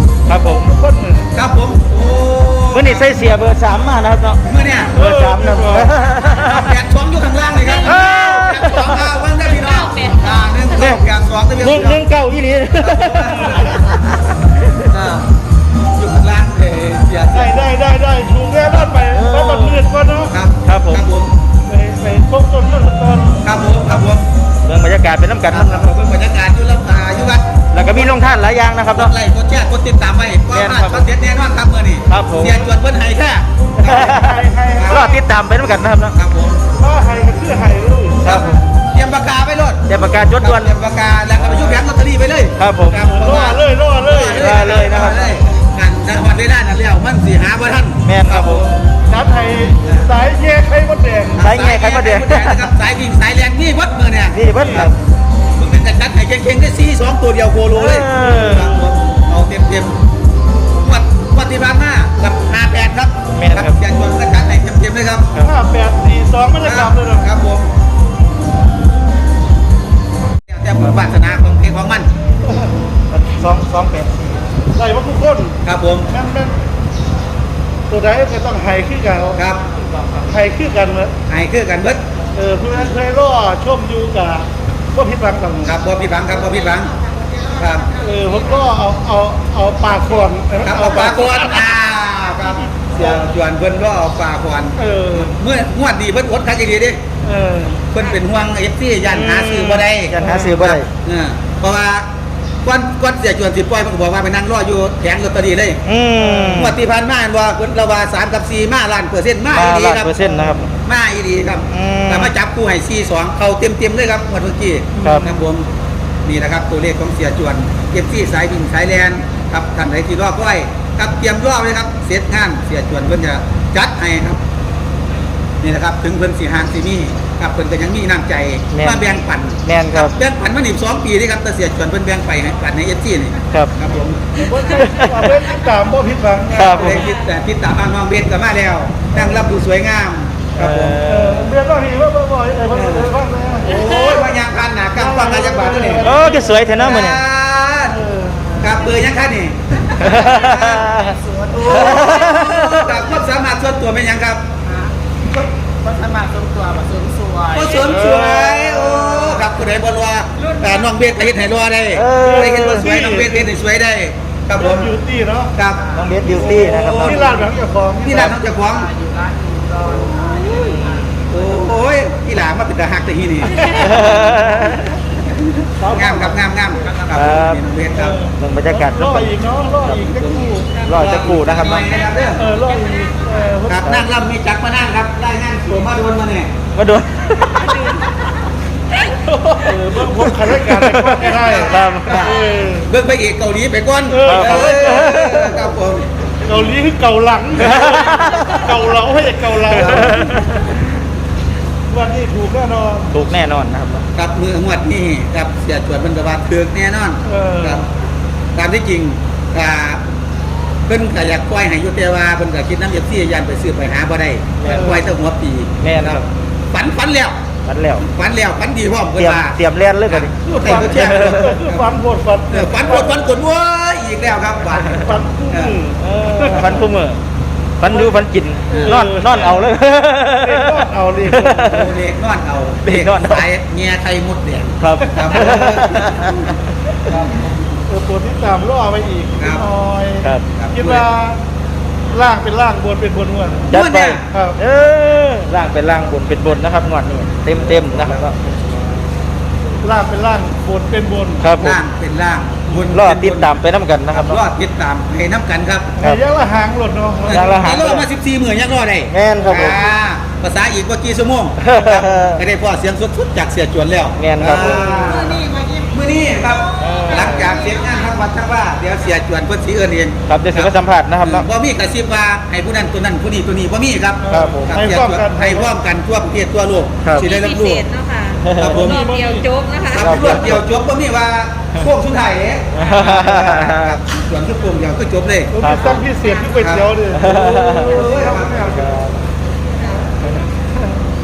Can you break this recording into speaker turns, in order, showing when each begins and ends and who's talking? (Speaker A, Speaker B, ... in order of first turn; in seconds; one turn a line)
Speaker A: 0.3-0.7
Speaker B: 0.5-1.3
Speaker C: 1.3-3.2
Speaker A: 2.7-4.4
Speaker C: 4.4-5.0
Speaker B: 5.0-6.0
Speaker A: 5.0-6.8
Speaker C: 6.3-12.0
Speaker D: 7.6-8.6
Speaker A: 7.8-9.2
Speaker D: 9.4-10.5
Speaker A: 10.8-11.1
Speaker A: 11.6-14.8
Speaker C: 12.8-14.1
Speaker C: 14.8-15.3
Speaker C: 16.0-17.7
Speaker B: 17.3-20.3
Speaker A: 19.1-19.9
Speaker C: 20.3-21.4
Speaker A: 20.6-21.0
Speaker B: 21.7-23.4
Speaker C: 23.4-24.2
Speaker A: 24.6-26.0
Speaker C: 25.5-28.3
Speaker A: 27.7-29.1
Speaker C: 28.9-34.1
Speaker A: 30.5-31.1
Speaker A: 32.1-32.7
Speaker A: 33.8-36.1
Speaker B: 33.8-35.2
Speaker C: 34.7-35.1
Speaker C: 36.1-36.6
Speaker B: 36.8-38.4
Speaker A: 38.2-38.6
Speaker C: 38.2-39.9
Speaker A: 39.9-40.8
Speaker C: 40.4-48.8
Speaker A: 41.4-41.8
Speaker A: 42.6-43.0
Speaker B: 43.1-44.9
Speaker A: 44.4-45.4
Speaker A: 48.0-48.7
Speaker B: 49.1-51.5
Speaker C: 51.4-54.9
Speaker A: 51.4-52.7
Speaker A: 54.3-55.0
Speaker B: 54.5-54.9
Speaker C: 55.6-60.0
Speaker A: 57.7-58.9
Speaker C: 60.8-65.3
Speaker A: 63.3-63.8
Speaker B: 65.4-67.3
Speaker C: 66.6-67.7
Speaker C: 70.5-72.1
Speaker A: 73.1-74.5
Speaker B: 74.8-75.6
Speaker C: 75.6-76.1
Speaker B: 76.1-76.5
Speaker B: 77.9-79.4
Speaker C: 79.3-79.6
Speaker A: 80.0-80.3
Speaker B: 80.3-81.1
Speaker C: 81.3-82.0
Speaker B: 82.3-85.8
Speaker C: 85.6-86.9
Speaker D: 86.9-88.7
Speaker C: 87.6-87.9
Speaker B: 88.0-91.7
Speaker C: 90.6-97.0
Speaker B: 92.5-93.2
Speaker B: 94.8-95.3
Speaker B: 97.2-97.8
Speaker C: 97.9-102.1
Speaker A: 99.1-100.9
Speaker C: 102.6-105.8
Speaker A: 105.9-106.8
Speaker B: 106.2-106.6
Speaker C: 106.5-110.1
Speaker A: 109.5-110.7
Speaker B: 110.2-110.6
Speaker C: 110.8-115.7
Speaker A: 111.7-112.3
Speaker B: 115.0-115.4
Speaker A: 115.0-115.4
Speaker C: 116.2-124.4
Speaker C: 125.6-134.3
Speaker A: 128.7-129.1
Speaker A: 129.7-130.2
Speaker B: 134.3-137.0
Speaker A: 134.6-135.4
Speaker A: 136.5-137.1
Speaker C: 136.7-141.0
Speaker B: 139.1-139.4
Speaker A: 140.6-141.6
Speaker B: 141.1-144.3
Speaker C: 142.7-143.1
Speaker C: 143.6-148.1
Speaker B: 145.0-146.8
Speaker A: 145.9-147.2
Speaker B: 148.0-148.7
Speaker C: 148.6-150.5
Speaker A: 150.0-153.0
Speaker E: 150.5-151.8
Speaker C: 151.5-154.5
Speaker E: 154.7-157.5
Speaker C: 157.5-164.9
Speaker D: 157.6-157.9
Speaker A: 157.7-159.4
Speaker A: 161.9-163.1
Speaker B: 162.2-163.5
Speaker B: 164.6-165.5
Speaker C: 165.6-167.2
Speaker A: 165.9-167.4
Speaker B: 166.8-168.4
Speaker C: 168.0-168.9
Speaker E: 168.9-171.2
Speaker D: 169.3-169.6
Speaker A: 170.2-171.2
Speaker D: 170.3-170.6
Speaker C: 171.3-174.2
Speaker B: 173.6-174.8
Speaker A: 173.7-175.0
Speaker C: 175.1-178.2
Speaker B: 175.8-176.4
Speaker A: 177.1-177.6
Speaker B: 177.9-180.8
Speaker A: 178.4-180.2
Speaker C: 180.1-182.5
Speaker D: 180.8-183.6
Speaker A: 180.8-182.0
Speaker B: 182.4-183.9
Speaker C: 183.7-186.5
Speaker A: 186.8-187.9
Speaker D: 187.4-188.2
Speaker B: 189.3-192.9
Speaker A: 190.1-192.3
Speaker C: 191.5-196.1
Speaker B: 194.1-195.4
Speaker A: 194.2-195.5
Speaker B: 196.4-200.6
Speaker A: 197.6-198.6
Speaker D: 198.0-198.5
Speaker A: 199.7-200.7
Speaker B: 201.9-203.2
Speaker A: 203.1-204.1
Speaker C: 204.2-207.9
Speaker B: 207.3-207.8
Speaker C: 208.5-210.0
Speaker C: 210.9-217.4
Speaker A: 214.6-215.0
Speaker B: 214.7-215.0
Speaker A: 215.8-216.2
Speaker A: 217.7-218.1
Speaker C: 218.0-221.9
Speaker A: 219.2-221.6
Speaker B: 220.4-223.3
Speaker C: 222.5-225.8
Speaker B: 224.7-226.9
Speaker A: 226.0-227.2
Speaker A: 227.8-231.9
Speaker B: 227.8-228.1
Speaker C: 228.7-229.0
Speaker B: 228.8-229.7
Speaker B: 230.4-231.8
Speaker C: 231.6-236.5
Speaker A: 232.8-233.5
Speaker A: 234.8-236.5
Speaker C: 237.1-237.3
Speaker B: 237.9-241.4
Speaker C: 239.4-239.7
Speaker C: 240.6-241.1
Speaker B: 242.1-243.7
Speaker A: 243.7-248.4
Speaker C: 243.7-244.2
Speaker B: 244.3-244.6
Speaker C: 247.9-248.2
Speaker B: 249.8-251.5
Speaker A: 251.4-251.8
Speaker C: 251.6-253.6
Speaker A: 252.9-254.4
Speaker C: 254.1-255.9
Speaker B: 256.0-257.5
Speaker C: 257.3-277.8
Speaker A: 257.3-258.1
Speaker A: 259.1-259.9
Speaker A: 261.6-262.4
Speaker A: 264.2-265.1
Speaker B: 264.5-265.2
Speaker D: 265.0-265.9
Speaker A: 266.8-267.6
Speaker D: 266.9-267.9
Speaker A: 270.3-271.5
Speaker B: 274.2-275.7
Speaker A: 274.3-274.8
Speaker A: 277.0-277.3
Speaker D: 277.2-280.2
Speaker A: 278.4-278.9
Speaker C: 278.6-279.0
Speaker B: 278.6-279.5
Speaker C: 279.9-285.6
Speaker A: 279.9-280.6
Speaker A: 282.7-284.0
Speaker B: 285.5-289.0
Speaker A: 285.6-286.0
Speaker D: 285.7-286.7
Speaker C: 286.6-286.9
Speaker A: 287.1-288.1
Speaker C: 287.9-288.8
Speaker A: 288.6-289.1